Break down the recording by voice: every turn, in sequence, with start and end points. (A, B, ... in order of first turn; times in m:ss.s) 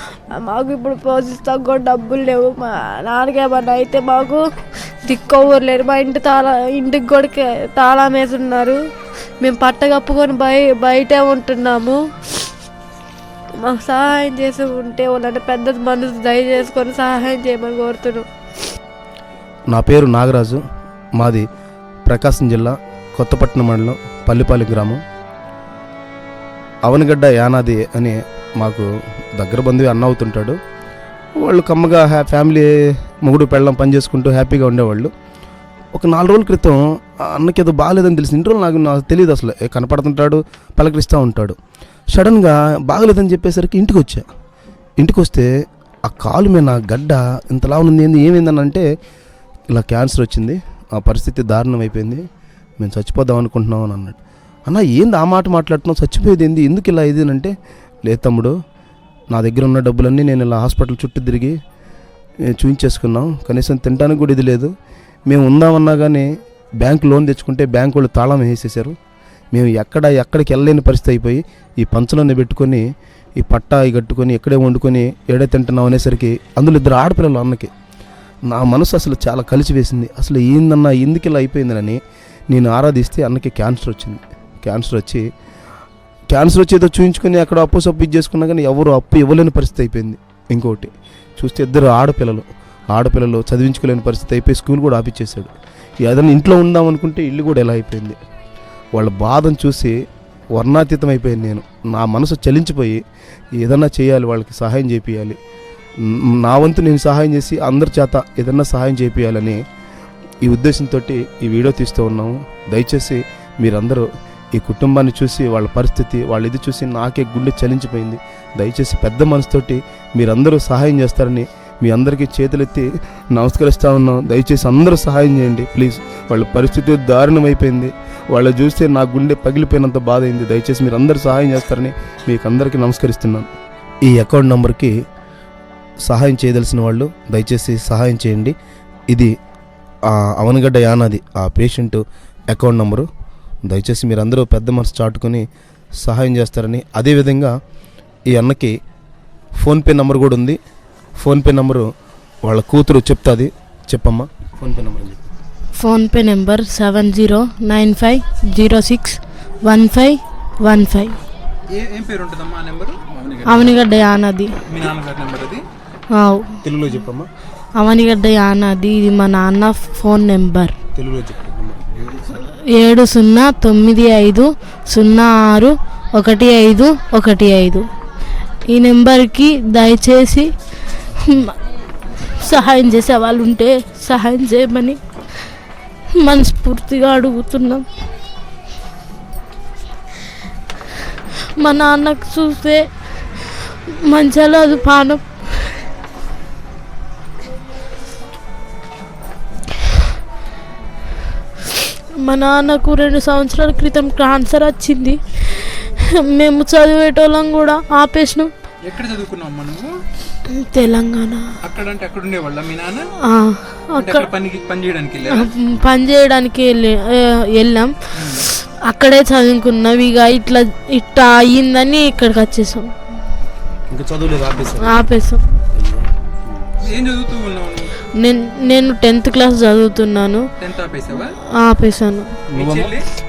0:00.3-0:04.4 A
0:05.0-0:08.8 A
0:09.4-0:12.0 A
0:13.6-0:18.3 A
0:19.7-0:20.6 B
0:21.2-0:21.4 B
0:22.0-0:25.0 B
0:26.8-0:30.6 B
0:31.4-0:32.7 B
0:33.2-0:35.1 B
0:35.9-0:41.6 B
0:42.1-0:44.2 B
0:45.0-0:45.5 B
0:46.1-0:48.8 B
0:49.7-0:52.2 B
0:52.8-0:54.2 B
0:54.7-0:57.5 B
0:58.0-0:58.5 B
0:59.3-1:01.5 B
1:02.5-1:04.7 B
1:05.3-1:06.3 B
1:06.8-1:08.9 B
1:09.5-1:12.8 B
1:13.4-1:17.7 B
1:18.5-1:22.0 B
1:22.5-1:25.2 B
1:26.3-1:35.5 B
1:36.0-1:38.2 B
1:38.9-1:39.9 B
1:40.5-1:43.0 B
1:43.6-1:45.4 B
1:46.1-1:49.6 B
1:50.4-2:13.5 B
2:14.0-2:14.9 B
2:16.0-2:18.5 B
2:20.1-2:23.0 B
2:23.6-2:25.4 B
2:26.0-2:27.5 B
2:28.3-2:28.7 B
2:29.6-2:30.6 B
2:31.2-2:31.9 B
2:32.4-2:35.2 B
2:35.8-2:41.2 C
2:41.7-2:43.7 D
2:43.4-2:44.5 C
2:44.7-2:45.6 D
2:46.2-2:46.6 C
2:46.6-2:47.3 B
2:47.8-2:50.7 C
2:51.0-2:52.2 B
2:52.7-2:57.8 C
2:58.7-3:00.5 C
3:01.2-3:01.5 C
3:02.4-3:05.0 C
3:06.2-3:07.8 C
3:11.6-3:13.4 C
3:14.1-3:15.7 C
3:22.2-3:28.5 C
3:28.8-3:29.9 D
3:30.6-3:31.5 C
3:31.6-3:33.1 D
3:33.3-3:34.3 C
3:34.0-3:35.5 D
3:35.3-3:42.9 C
3:38.1-3:38.4 D
3:43.9-3:45.1 B
3:44.8-3:45.4 C
3:45.7-3:46.1 B
3:46.8-3:47.9 D
3:48.2-3:50.4 C
3:50.6-3:51.3 D
3:51.6-3:52.3 C
3:52.5-3:52.9 B
3:52.5-3:53.0 D